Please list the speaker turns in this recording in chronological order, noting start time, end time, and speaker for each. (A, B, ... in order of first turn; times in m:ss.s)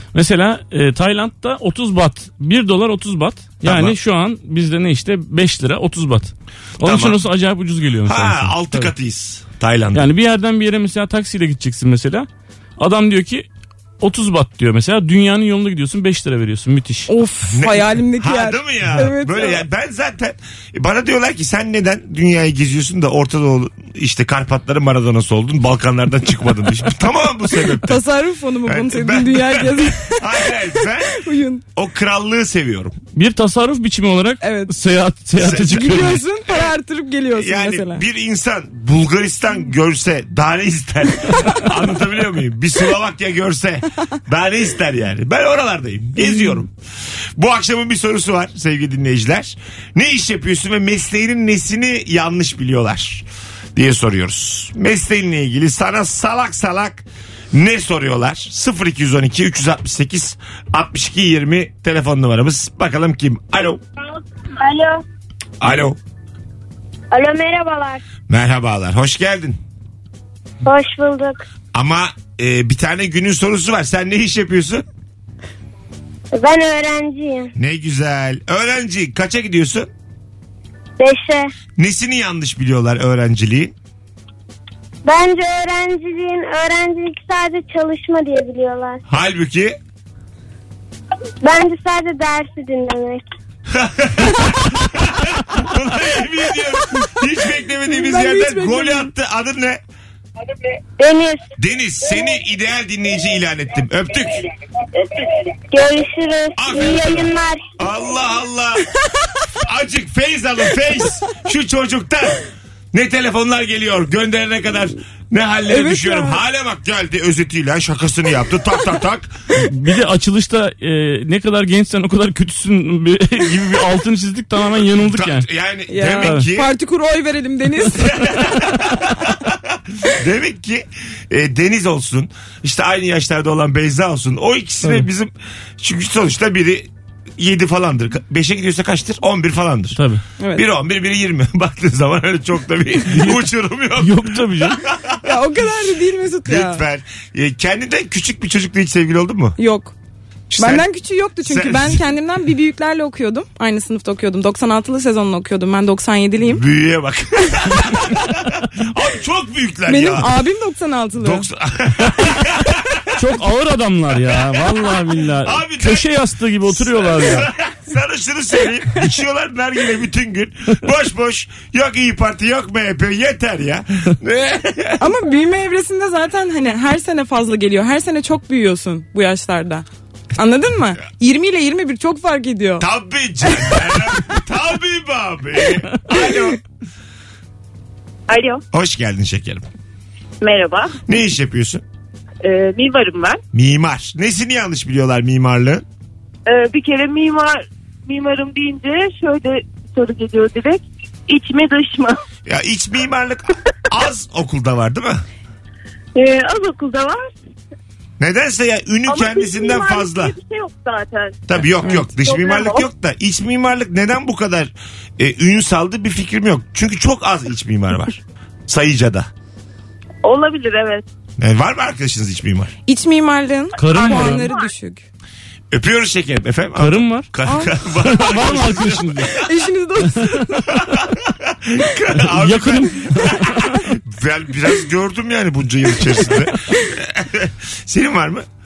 0:00.1-0:08.9 A
0:03.6-0:04.0 B
0:06.8-0:07.2 B
0:08.0-0:10.1 B
0:09.9-0:12.3 A
0:12.8-0:13.5 A
0:14.0-0:17.1 A
0:17.1-0:19.6 C
0:17.5-0:28.0 B
0:27.8-0:31.6 C
0:28.7-0:31.2 B
0:31.8-0:33.0 B
0:33.2-0:36.2 A
0:34.4-0:34.7 C
0:35.4-0:35.7 B
0:35.4-0:38.0 C
0:37.4-0:46.7 B
0:46.2-0:46.6 C
0:47.4-1:03.8 B
1:04.6-1:05.0 D
1:05.6-1:06.0 B
1:07.1-1:08.0 D
1:08.3-1:09.6 B
1:10.6-1:11.4 D
1:11.7-1:14.8 B
1:16.3-1:17.5 D
1:17.6-1:19.9 B
1:21.0-1:21.5 D
1:21.8-1:23.7 B
1:25.0-1:29.0 D
1:29.1-1:29.8 B
1:31.4-1:33.2 D
1:33.7-1:39.8 B
1:37.9-1:39.1 C
1:41.0-1:41.4 D
1:41.6-1:44.5 B
1:45.7-1:47.8 D
1:46.6-1:48.9 B
1:49.6-1:59.3 B
1:55.7-1:56.4 C
1:59.5-2:05.5 A
2:05.0-2:06.7 B
2:05.9-2:08.5 C
2:07.9-2:20.0 B
2:19.9-2:20.2 A
2:20.4-2:20.6 C
2:20.6-2:25.4 B
2:23.1-2:23.4 A
2:24.0-2:24.8 A
2:25.2-2:26.8 C
2:26.4-2:29.6 B
2:29.6-2:29.9 C
2:30.5-2:30.9 B
2:30.6-2:36.6 C
2:31.4-2:32.0 B
2:36.4-2:40.3 B
2:39.9-2:41.5 C
2:41.2-2:43.2 B
2:43.1-2:47.5 A
2:44.2-2:55.1 B
2:55.0-3:02.9 C
3:02.8-3:06.6 B
3:08.3-3:08.6 E
3:08.7-3:09.6 B
3:10.4-3:11.0 E
3:11.1-3:11.8 B
3:12.4-3:13.4 E
3:13.5-3:15.8 B
3:16.5-3:22.2 E
3:22.4-3:25.2 B
3:26.2-3:27.3 E
3:28.2-3:30.3 B
3:29.1-3:32.9 E
3:31.5-3:39.3 B
3:40.2-3:41.0 E
3:41.4-3:42.7 B
3:42.9-3:45.0 C
3:43.8-3:44.5 A
3:43.8-3:44.7 E
3:45.7-3:49.4 B
3:46.8-3:47.3 A
3:47.4-3:47.7 C
3:48.0-3:49.5 A
3:49.3-3:50.6 C
3:50.7-3:58.4 B
3:52.2-3:53.8 A